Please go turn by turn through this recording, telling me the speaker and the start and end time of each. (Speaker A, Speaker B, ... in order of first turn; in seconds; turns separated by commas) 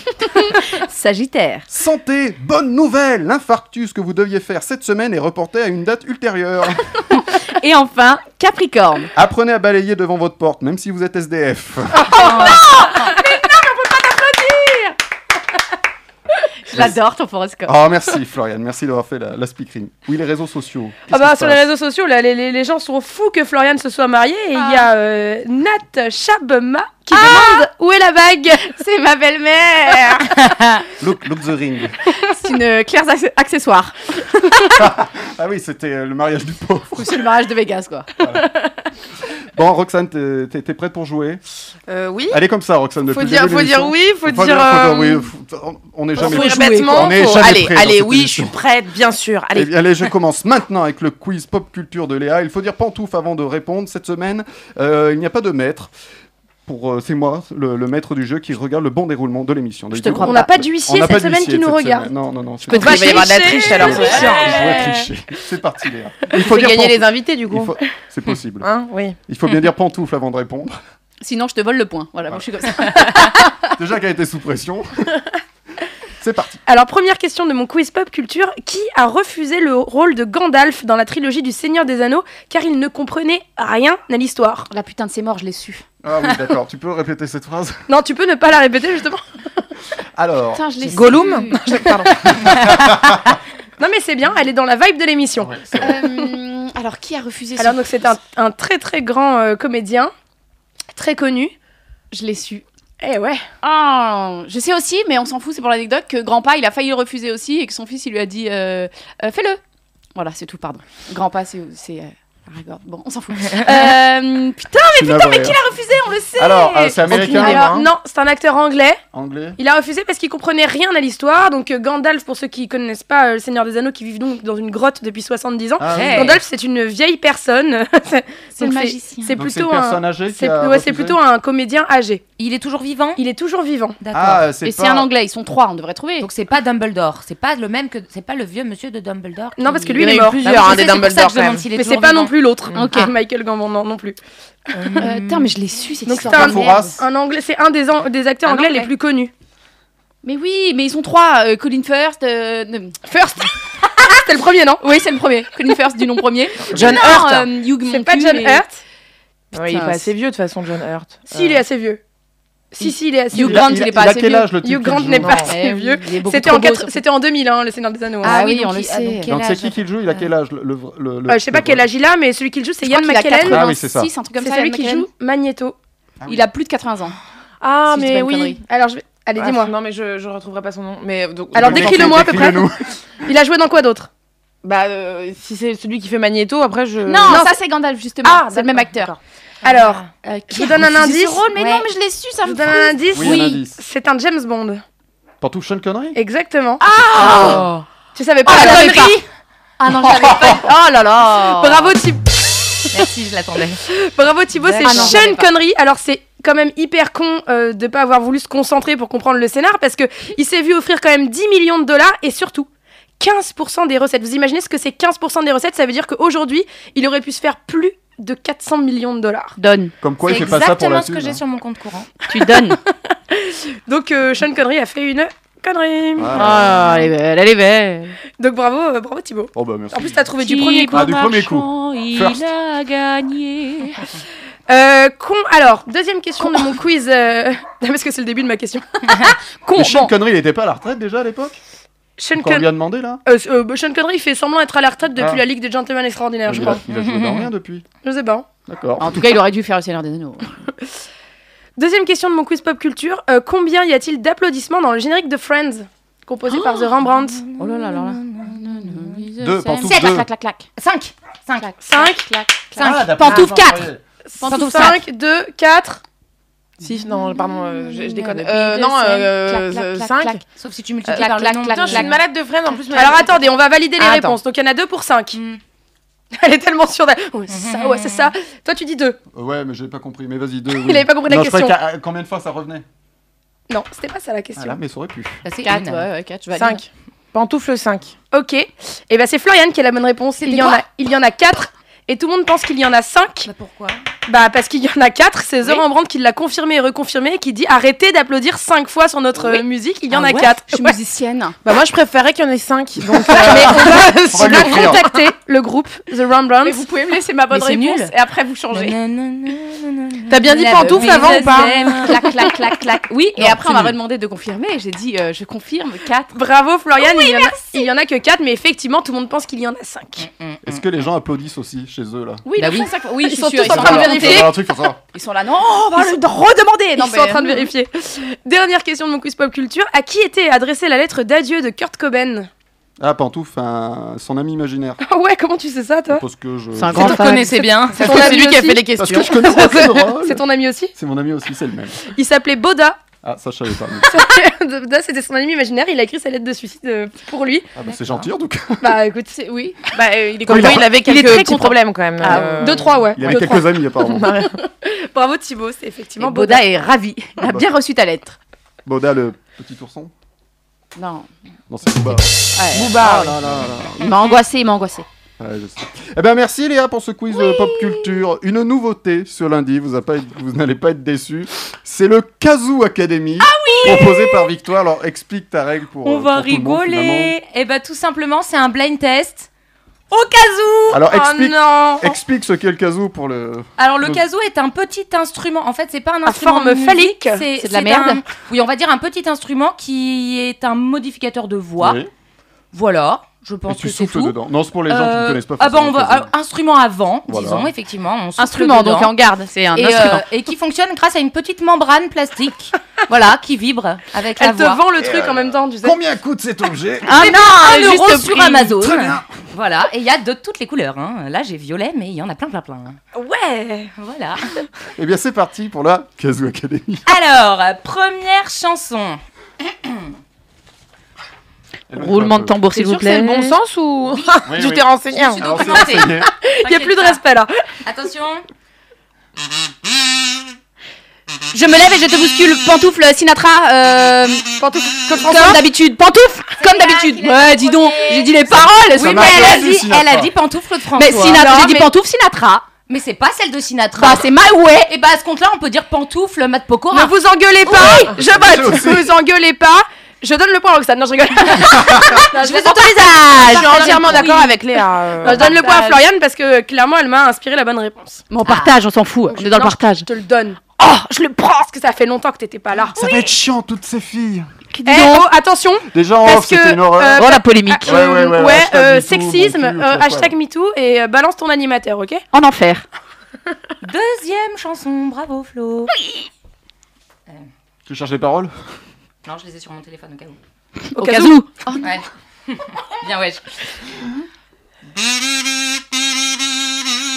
Speaker A: 0.4-1.7, Speaker B: 1.7-6.9, Speaker A: 7.1-9.1, Speaker B: 9.1-12.3, Speaker C: 12.2-12.6, Speaker A: 12.2-14.9, Speaker A: 16.6-17.7, Speaker B: 17.6-21.6, Speaker D: 21.1-28.7, Speaker A: 24.6-24.9, Speaker A: 27.1-27.6, Speaker A: 28.7-30.7, Speaker B: 31.0-32.0, Speaker A: 32.3-34.7, Speaker B: 34.7-37.2, Speaker A: 37.0-38.1, Speaker B: 38.2-38.5, Speaker B: 39.5-41.4, Speaker E: 41.9-42.4, Speaker B: 42.3-48.5, Speaker E: 43.1-45.3, Speaker A: 46.2-47.4, Speaker E: 46.2-49.7, Speaker B: 49.5-55.9, Speaker B: 56.6-68.7, Speaker A: 59.9-60.4, Speaker D: 60.2-62.1, Speaker E: 62.7-64.6, Speaker D: 62.7-65.0, Speaker A: 62.9-63.6, Speaker E: 66.4-67.7, Speaker E: 68.6-69.2, Speaker B: 69.2-70.7, Speaker A: 71.2-73.5, Speaker B: 72.3-72.9, Speaker B: 73.7-75.1, Speaker B: 76.2-76.6, Speaker D: 76.7-84.7, Speaker A: 84.7-85.8, Speaker B: 86.0-87.8, Speaker D: 87.9-89.2, Speaker B: 90.1-90.8, Speaker A: 90.5-91.6, Speaker E: 90.9-92.2, Speaker D: 91.6-92.5, Speaker B: 92.7-93.1, Speaker D: 93.8-95.5, Speaker B: 95.4-96.0, Speaker A: 95.8-97.8, Speaker D: 97.6-100.1, Speaker D: 100.9-101.5, Speaker A: 102.1-102.6, Speaker D: 103.0-103.5, Speaker A: 103.6-109.6, Speaker A: 110.1-117.7, Speaker B: 114.9-115.6, Speaker B: 116.4-117.6, Speaker E: 117.1-117.9, Speaker D: 117.3-119.0, Speaker B: 119.1-119.6, Speaker D: 119.6-132.2, Speaker B: 125.8-126.4, Speaker C: 125.9-126.4, Speaker A: 128.6-129.4, Speaker B: 129.3-131.2, Speaker C: 132.4-133.2, Speaker D: 133.2-134.0, Speaker C: 134.0-134.5, Speaker B: 134.1-135.1, Speaker A: 134.6-136.3, Speaker C: 136.2-142.3, Speaker D: 139.6-140.8, Speaker E: 140.0-141.7, Speaker D: 141.7-144.2, Speaker A: 142.7-143.1, Speaker C: 144.7-145.5, Speaker A: 144.9-146.9, Speaker D: 146.0-149.3, Speaker B: 146.2-147.0, Speaker A: 148.5-148.8, Speaker C: 148.5-148.8, Speaker A: 150.2-153.1, Speaker D: 153.1-153.5, Speaker D: 154.0-154.8, Speaker A: 154.8-158.6, Speaker E: 156.7-157.5, Speaker D: 156.8-158.8, Speaker A: 159.5-160.1, Speaker E: 159.5-161.6, Speaker D: 161.3-162.0, Speaker D: 162.7-164.0, Speaker A: 162.8-164.6, Speaker B: 163.3-165.5, Speaker D: 164.6-168.4, Speaker A: 165.4-167.0, Speaker A: 168.2-169.3, Speaker C: 168.2-169.8, Speaker B: 169.2-171.8, Speaker D: 171.3-173.7, Speaker A: 172.8-175.1, Speaker B: 173.4-174.1, Speaker D: 174.4-175.8, Speaker B: 176.2-176.5, Speaker A: 176.2-177.1, Speaker E: 177.6-178.6, Speaker A: 177.9-178.6, Speaker D: 178.6-179.7, Speaker E: 179.4-182.4, Speaker D: 181.5-182.6, Speaker B: 181.5-182.9, Speaker D: 183.2-184.1, Speaker E: 184.6-187.4, Speaker A: 187.0-189.1, Speaker D: 187.3-187.5, Speaker E: 188.2-189.2, Speaker D: 189.6-191.4, Speaker A: 190.2-193.6, Speaker C: 191.6-191.8, Speaker D: 192.4-194.8, Speaker B: 193.1-193.8, Speaker B: 195.4-196.2, Speaker D: 196.1-197.6, Speaker A: 196.8-197.8, Speaker E: 197.2-197.7, Speaker D: 198.1-199.2, Speaker A: 198.4-199.2, Speaker A: 199.8-201.9, Speaker B: 200.1-200.5, Speaker D: 201.5-202.8, Speaker C: 202.9-203.8, Speaker D: 203.9-212.7, Speaker A: 204.6-205.5, Speaker D: 213.2-219.6, Speaker A: 219.6-219.9, Speaker B: 220.0-221.4, Speaker C: 220.2-222.1, Speaker A: 222.3-222.8, Speaker D: 222.4-226.6, Speaker B: 226.2-227.0, Speaker A: 226.3-228.2, Speaker D: 228.4-231.2, Speaker B: 229.5-230.2, Speaker A: 230.4-234.0, Speaker B: 230.9-232.4, Speaker D: 234.7-240.1, Speaker B: 239.7-241.5, Speaker D: 242.2-242.7, Speaker B: 242.3-243.2, Speaker D: 243.2-246.8, Speaker B: 245.2-245.4, Speaker B: 246.4-247.8, Speaker C: 246.9-247.5, Speaker D: 248.0-248.4, Speaker B: 248.7-249.3, Speaker A: 249.0-250.5, Speaker D: 251.8-257.4, Speaker C: 257.4-259.2, Speaker A: 257.6-260.6, Speaker B: 259.4-260.3, Speaker C: 259.8-260.2, Speaker C: 260.8-261.8, Speaker A: 261.6-262.8, Speaker D: 261.8-262.3, Speaker C: 262.7-263.9, Speaker B: 262.8-264.0, Speaker E: 263.2-263.5, Speaker D: 264.3-266.0, Speaker C: 264.4-265.0, Speaker E: 266.8-270.4, Speaker A: 267.8-270.4, Speaker C: 270.6-272.1, Speaker A: 271.1-272.2, Speaker E: 271.1-273.4, Speaker D: 272.9-275.4, Speaker A: 274.0-274.3, Speaker C: 275.3-275.6, Speaker D: 276.3-279.2, Speaker C: 277.5-278.3, Speaker B: 279.3-282.8, Speaker D: 280.7-281.8, Speaker D: 283.7-284.8, Speaker B: 284.6-285.4, Speaker C: 285.4-286.1, Speaker A: 285.6-286.8, Speaker E: 286.5-288.1, Speaker D: 288.3-293.5, Speaker A: 290.4-290.8, Speaker C: 293.5-294.0, Speaker D: 294.3-301.0, Speaker A: 300.1-301.6, Speaker E: 301.6-305.0, Speaker D: 303.4-306.8, Speaker B: 303.5-305.0, Speaker A: 306.6-308.9, Speaker C: 307.5-308.1, Speaker C: 308.7-312.2, Speaker E: 310.3-312.1, Speaker A: 310.5-316.4, Speaker C: 313.3-313.9, Speaker D: 316.3-320.3, Speaker A: 317.0-317.8, Speaker C: 320.2-320.8, Speaker B: 320.6-322.4, Speaker A: 322.4-324.5, Speaker C: 322.6-322.9, Speaker D: 323.2-324.5, Speaker B: 323.6-325.0, Speaker A: 325.1-327.7, Speaker D: 327.0-332.5, Speaker B: 333.0-335.0, Speaker D: 335.0-336.2, Speaker B: 336.1-337.2, Speaker A: 336.8-337.6, Speaker C: 336.9-338.5, Speaker D: 336.9-338.8, Speaker E: 338.0-340.0, Speaker A: 338.4-338.8, Speaker B: 339.0-342.0, Speaker D: 339.5-340.9, Speaker D: 342.1-343.0, Speaker B: 343.2-344.1, Speaker D: 344.1-347.7, Speaker B: 347.8-349.0, Speaker C: 347.8-348.2, Speaker D: 348.8-349.3, Speaker A: 349.3-352.9, Speaker E: 350.4-353.0, Speaker B: 350.5-350.9, Speaker D: 352.6-353.7, Speaker B: 353.1-354.5, Speaker E: 354.0-354.5, Speaker D: 354.8-356.7, Speaker A: 356.2-358.4, Speaker B: 357.4-357.7, Speaker B: 358.8-360.1, Speaker A: 360.9-361.3, Speaker B: 361.7-364.1, Speaker A: 362.5-363.4, Speaker A: 364.0-365.1, Speaker B: 365.4-377.3, Speaker A: 367.4-367.9, Speaker A: 373.5-374.3, Speaker C: 376.0-379.5, Speaker C: 380.1-381.0, Speaker B: 380.9-384.2, Speaker D: 381.0-382.1, Speaker C: 383.8-392.0, Speaker D: 386.2-387.4, Speaker A: 387.5-388.2, Speaker B: 391.8-392.1, Speaker C: 392.7-394.4, Speaker B: 393.7-396.3, Speaker C: 394.9-399.1, Speaker B: 397.3-397.7, Speaker A: 398.4-400.2, Speaker C: 399.7-404.8, Speaker D: 404.4-406.0, Speaker B: 405.0-407.2, Speaker A: 407.0-409.0, Speaker C: 407.1-413.0, Speaker B: 408.8-409.2, Speaker D: 413.1-413.9, Speaker C: 414.0-414.4, Speaker B: 414.9-417.1, Speaker C: 417.1-419.2, Speaker C: 419.8-420.1, Speaker B: 421.9-422.6, Speaker A: 421.9-423.5, Speaker E: 422.7-425.6, Speaker B: 424.5-426.3, Speaker C: 425.2-427.2, Speaker D: 426.4-427.5, Speaker C: 427.8-428.4, Speaker A: 431.5-434.4, Speaker D: 434.6-435.6, Speaker A: 435.2-439.7, Speaker C: 436.6-441.8, Speaker B: 438.9-440.3, Speaker A: 440.9-442.6, Speaker D: 441.4-441.9, Speaker C: 442.9-444.3, Speaker A: 444.0-444.9, Speaker C: 444.9-448.1, Speaker D: 446.9-453.0, Speaker B: 448.3-449.1, Speaker B: 451.7-452.1, Speaker C: 452.3-454.4, Speaker A: 452.6-454.3, Speaker E: 453.5-455.6, Speaker D: 453.6-454.4, Speaker D: 455.2-458.2, Speaker C: 455.2-455.6, Speaker A: 455.3-455.9, Speaker A: 458.3-460.1, Speaker C: 458.4-458.7, Speaker D: 459.3-463.0, Speaker B: 462.9-464.5, Speaker A: 464.7-465.3, Speaker D: 464.9-472.2, Speaker B: 465.9-470.3, Speaker A: 467.2-467.9, Speaker A: 472.3-472.8, Speaker C: 473.8-475.9, Speaker B: 477.9-478.5, Speaker C: 479.2-480.4, Speaker A: 480.9-481.8, Speaker D: 480.9-481.4, Speaker C: 481.8-483.4